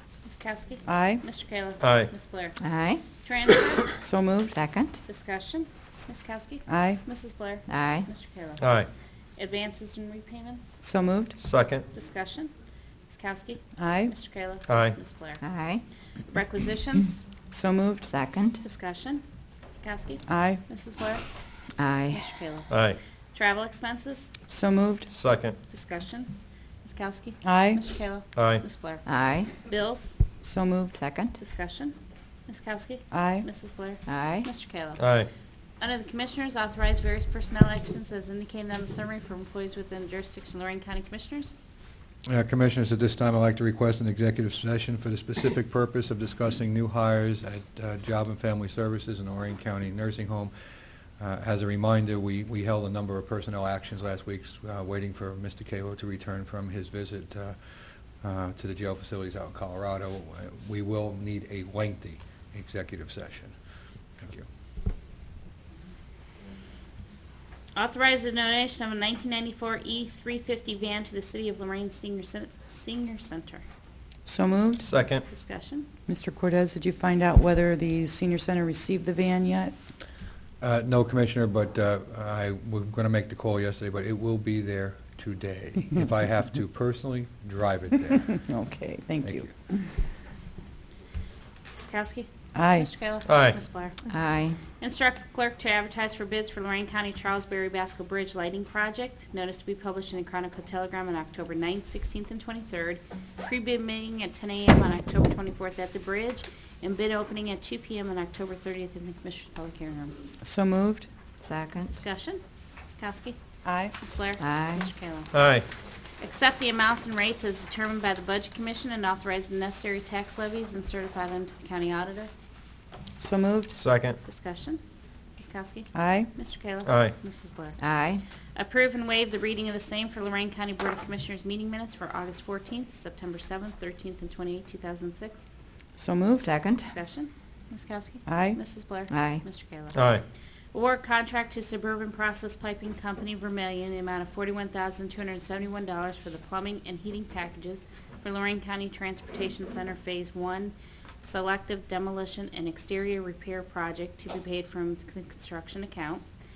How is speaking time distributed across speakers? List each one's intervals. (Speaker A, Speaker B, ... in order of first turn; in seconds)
Speaker A: 0.2-2.6, 3.1-4.0, 5.0-8.7, 9.4-10.8, 11.9-12.5, 13.1-15.4, 16.3-17.2, 18.6-21.3, 22.1-22.7, 23.3-24.3, 25.7-30.2, 31.4-32.0, 32.5-35.0, 35.8-41.5, 67.8-73.6, 75.3-75.9, 91.8-94.0, 94.8-110.2, 111.9-113.4, 114.0-115.3, 116.2-122.3, 124.2-124.8, 125.4-127.8, 128.5-135.5, 136.8-140.0, 140.7-156.2
Speaker B: 0.9-1.2, 4.0-4.6, 6.7-7.0, 10.8-11.4, 13.8-14.1, 17.5-18.1, 20.3-20.6, 24.5-25.1, 27.4-27.8, 30.4-31.0, 33.1-33.5, 74.2-74.9, 76.1-79.8, 88.3-90.0, 92.5-92.9, 110.4-111.1, 113.7-113.9, 123.2-123.8, 126.0-126.3, 136.0-136.5, 138.3-138.6
Speaker C: 1.8-2.1, 8.6-8.9, 11.4-11.8, 14.7-15.0, 22.7-23.0, 25.1-25.6, 28.3-28.6, 35.0-35.3, 74.8-75.2, 93.3-93.6, 115.3-115.7, 123.8-124.2, 126.8-127.1, 139.9-140.2
Speaker D: 2.6-3.0, 4.5-5.0, 7.7-8.1, 15.4-15.8, 18.1-18.6, 21.8-22.3, 29.1-29.5, 30.9-31.4, 34.1-34.5, 94.1-94.6, 111.4-112.0, 114.4-114.9, 127.8-128.2, 136.4-136.9, 139.1-139.4
Speaker E: 42.3-50.5, 51.2-63.5, 64.2-64.5, 80.6-88.5, 89.2-89.5